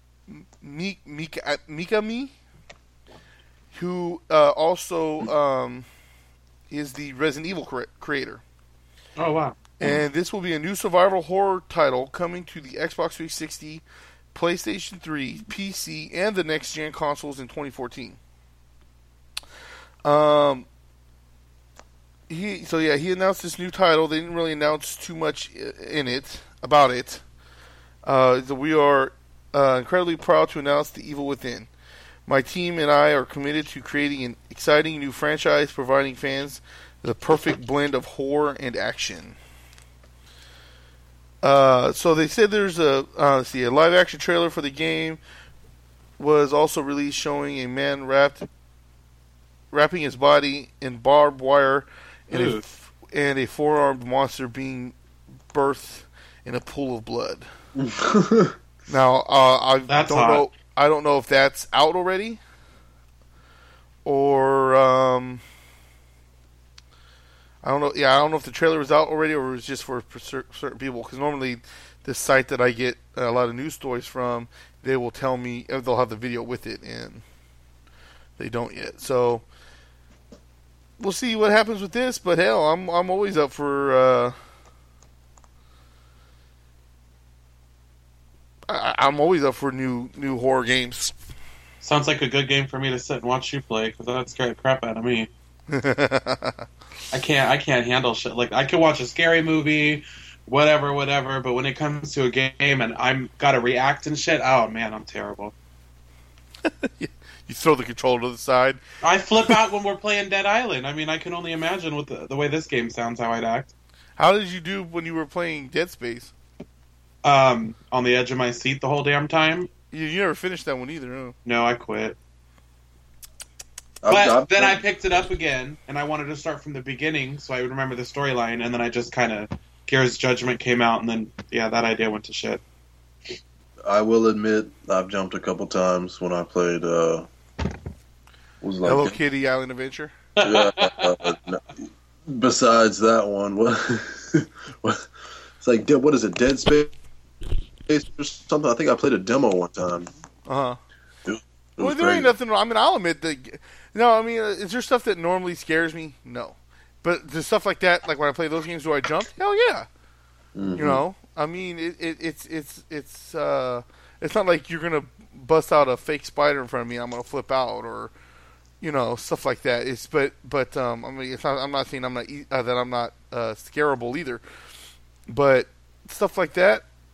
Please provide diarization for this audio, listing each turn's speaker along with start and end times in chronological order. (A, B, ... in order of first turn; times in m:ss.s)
0:00.3-0:02.3 A
0:03.7-0:05.9 A
0:06.7-0:08.4 A
0:09.2-0:09.6 B
0:09.8-0:13.8 A
0:14.3-0:18.2 A
0:20.0-0:20.7 A
0:22.3-0:27.2 A
0:28.0-0:31.7 A
0:32.3-0:39.4 A
0:41.4-0:45.2 A
0:46.2-0:48.5 A
0:49.7-0:54.9 A
0:52.3-0:52.6 B
0:55.5-0:57.4 A
0:57.8-0:58.6 C
0:58.9-1:02.4 A
0:59.9-1:00.5 B
1:04.0-1:05.4 A
1:07.6-1:17.2 A
1:18.4-1:19.4 A
1:21.0-1:24.4 A
1:28.7-1:31.1 A
1:31.8-1:35.3 B
1:35.7-1:36.6 A
1:37.1-1:45.5 B
1:46.7-1:48.8 A
1:49.0-1:53.7 B
1:54.2-1:56.3 A
1:57.2-1:59.7 B
1:59.9-2:01.4 A
2:01.5-2:02.2 B
2:04.0-2:04.8 C
2:04.1-2:12.6 B
2:13.9-2:17.3 C
2:18.6-2:19.2 C
2:18.8-2:20.1 A
2:20.4-2:21.3 B
2:20.4-2:25.1 C
2:25.6-2:26.9 C
2:27.9-2:30.1 C
2:30.5-2:30.8 A
2:31.2-2:32.3 C
2:31.8-2:39.9 A
2:40.6-2:41.0 C
2:40.8-2:48.1 A
2:48.8-2:54.4 A
2:55.3-2:56.8 A